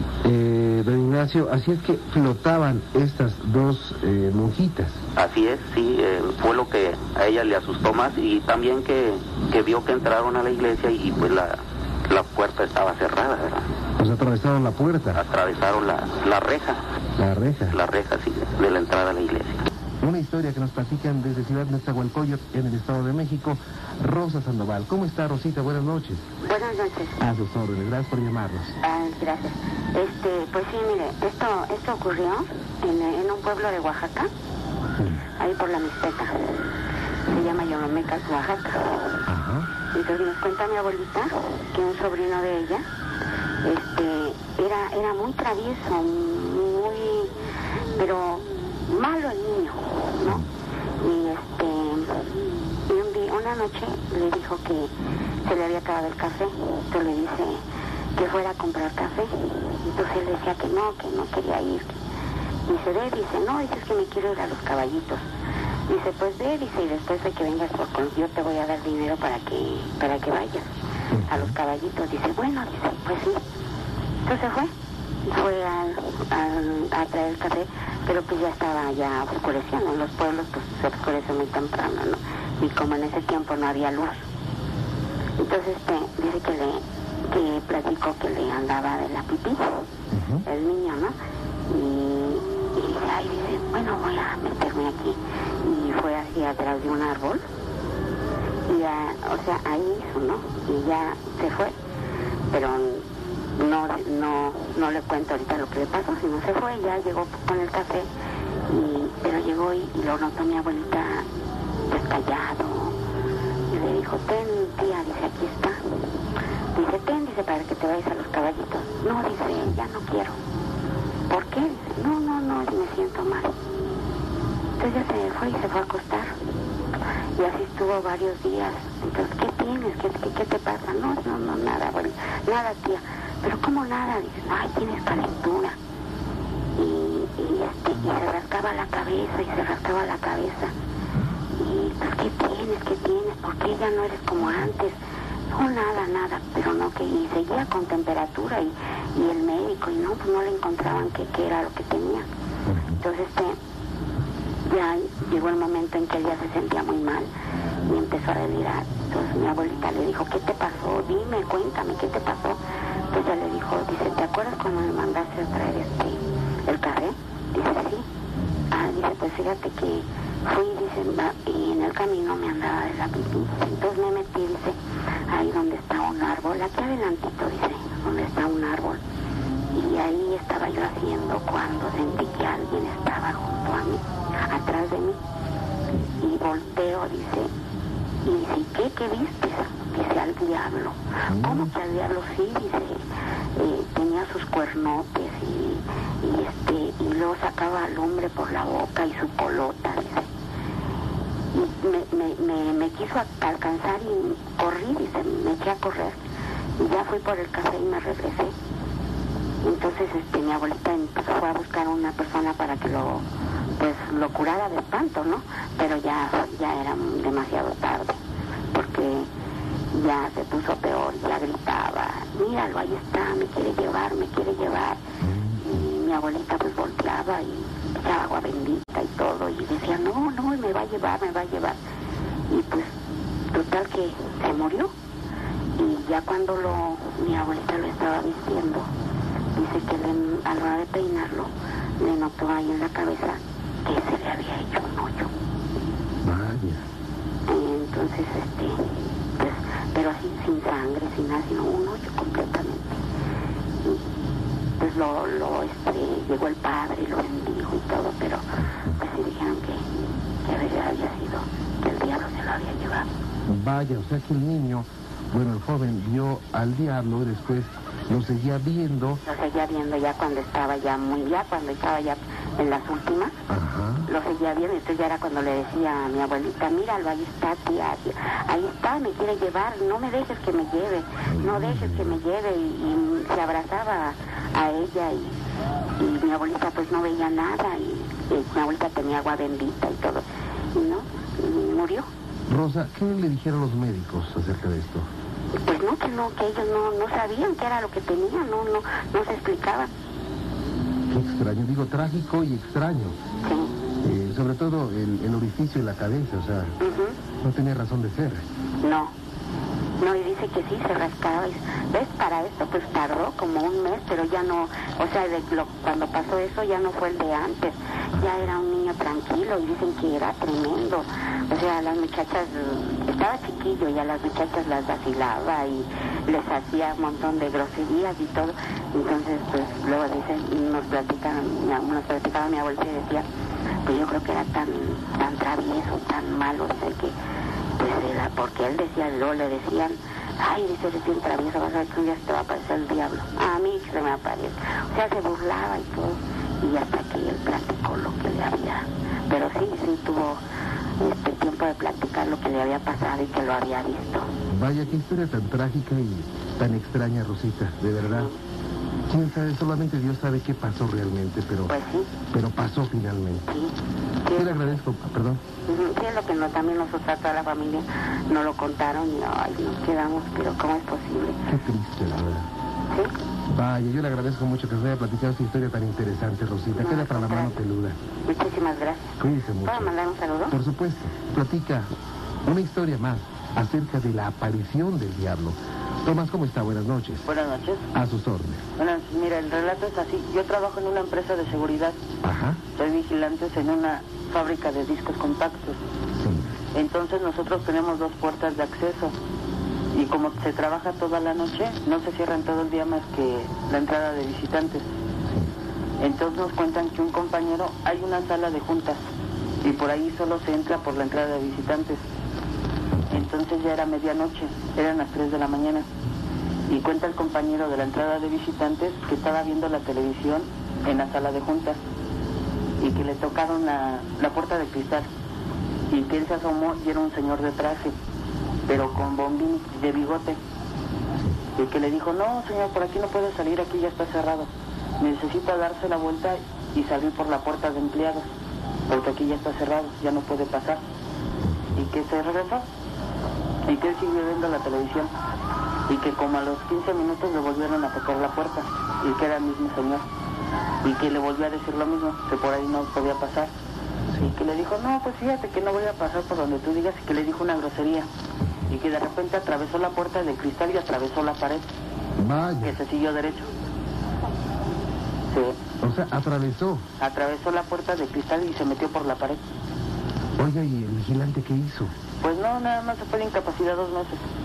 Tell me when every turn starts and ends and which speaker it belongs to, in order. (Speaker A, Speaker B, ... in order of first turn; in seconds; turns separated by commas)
Speaker A: 0.2-5.0, Speaker B: 5.2-13.7, Speaker A: 14.0-15.2, Speaker B: 15.2-16.8, Speaker A: 17.2-17.8, Speaker B: 17.7-19.7, Speaker A: 20.0-26.3, Speaker C: 26.4-27.2, Speaker A: 27.2-28.8, Speaker C: 28.8-34.3, Speaker C: 35.4-36.6, Speaker C: 37.3-39.2, Speaker A: 39.3-39.7, Speaker C: 39.9-42.8, Speaker C: 43.6-47.3, Speaker C: 48.0-50.4, Speaker C: 51.0-52.3, Speaker C: 52.9-54.9, Speaker C: 55.5-57.6, Speaker C: 58.2-62.0, Speaker C: 62.7-65.2, Speaker C: 65.9-70.7, Speaker A: 71.1-71.5, Speaker C: 71.3-73.4, Speaker C: 74.2-74.7, Speaker C: 75.3-84.3, Speaker C: 85.4-89.9, Speaker A: 90.1-90.5, Speaker C: 90.5-91.2, Speaker C: 91.7-97.4, Speaker C: 98.7-101.8, Speaker C: 102.5-103.0, Speaker C: 103.6-108.1, Speaker C: 108.7-111.3, Speaker C: 111.9-113.0, Speaker C: 113.7-116.0, Speaker C: 116.8-120.4, Speaker C: 121.3-123.5, Speaker C: 124.8-126.3, Speaker C: 127.4-135.8, Speaker C: 136.8-140.7, Speaker C: 141.6-145.0, Speaker C: 145.5-152.3, Speaker A: 152.7-153.0, Speaker C: 153.0-153.6, Speaker C: 154.7-157.3, Speaker C: 157.9-162.6, Speaker C: 163.1-168.1, Speaker C: 168.7-174.8, Speaker C: 175.3-179.0, Speaker C: 179.7-185.2, Speaker C: 186.2-187.5, Speaker C: 188.2-193.0, Speaker A: 191.3-191.7, Speaker C: 193.6-200.3, Speaker C: 201.5-206.2, Speaker C: 206.8-208.5, Speaker C: 209.6-213.2, Speaker C: 213.8-218.2, Speaker C: 218.7-219.3, Speaker C: 219.9-225.0, Speaker A: 225.2-225.6, Speaker C: 225.6-231.8, Speaker C: 232.5-232.9, Speaker C: 233.5-234.9, Speaker C: 235.8-238.9, Speaker C: 239.6-245.3, Speaker A: 246.2-246.8, Speaker C: 247.5-253.0, Speaker C: 254.8-258.4, Speaker A: 258.6-259.0, Speaker C: 259.0-259.9, Speaker C: 260.4-263.1, Speaker A: 263.5-269.2, Speaker C: 269.3-273.4, Speaker A: 273.5-274.1, Speaker C: 274.1-285.4, Speaker A: 281.3-282.2, Speaker C: 286.0-292.1, Speaker A: 292.5-295.1, Speaker C: 295.6-299.9, Speaker A: 301.1-303.2, Speaker C: 303.4-303.7, Speaker A: 304.0-306.7, Speaker C: 306.8-307.2, Speaker A: 307.4-308.4, Speaker C: 308.8-309.1, Speaker C: 310.0-333.3, Speaker C: 333.8-337.1, Speaker C: 337.8-350.4, Speaker C: 351.0-354.3, Speaker A: 354.5-358.3, Speaker C: 358.0-358.4, Speaker A: 359.1-361.7, Speaker C: 361.7-362.1, Speaker A: 362.3-363.5, Speaker C: 363.5-364.7, Speaker A: 364.4-365.4, Speaker C: 365.7-371.4, Speaker A: 371.5-372.5, Speaker A: 373.5-378.0, Speaker C: 376.8-377.6, Speaker C: 378.2-380.6, Speaker A: 379.2-379.9, Speaker A: 380.5-381.9, Speaker A: 382.5-387.3, Speaker D: 387.3-387.9, Speaker A: 387.9-388.6, Speaker D: 388.8-392.0, Speaker A: 392.2-392.6, Speaker D: 392.8-395.8, Speaker D: 396.7-399.1, Speaker D: 399.9-404.9, Speaker D: 406.0-409.0, Speaker D: 409.6-412.0, Speaker A: 412.9-413.2, Speaker D: 413.1-415.9, Speaker D: 416.7-421.8, Speaker D: 422.8-425.1, Speaker D: 425.9-427.9, Speaker D: 428.7-430.4, Speaker D: 431.6-438.3, Speaker D: 438.9-440.8, Speaker A: 441.5-441.8, Speaker D: 441.8-442.7, Speaker D: 443.7-445.1, Speaker D: 445.9-450.1, Speaker D: 450.8-453.5, Speaker D: 454.2-458.1, Speaker A: 458.4-458.7, Speaker D: 458.7-461.7, Speaker A: 462.2-462.8, Speaker D: 462.6-463.5, Speaker D: 465.3-465.6, Speaker A: 465.8-466.9, Speaker D: 467.0-469.4, Speaker A: 470.4-471.9, Speaker D: 472.2-474.2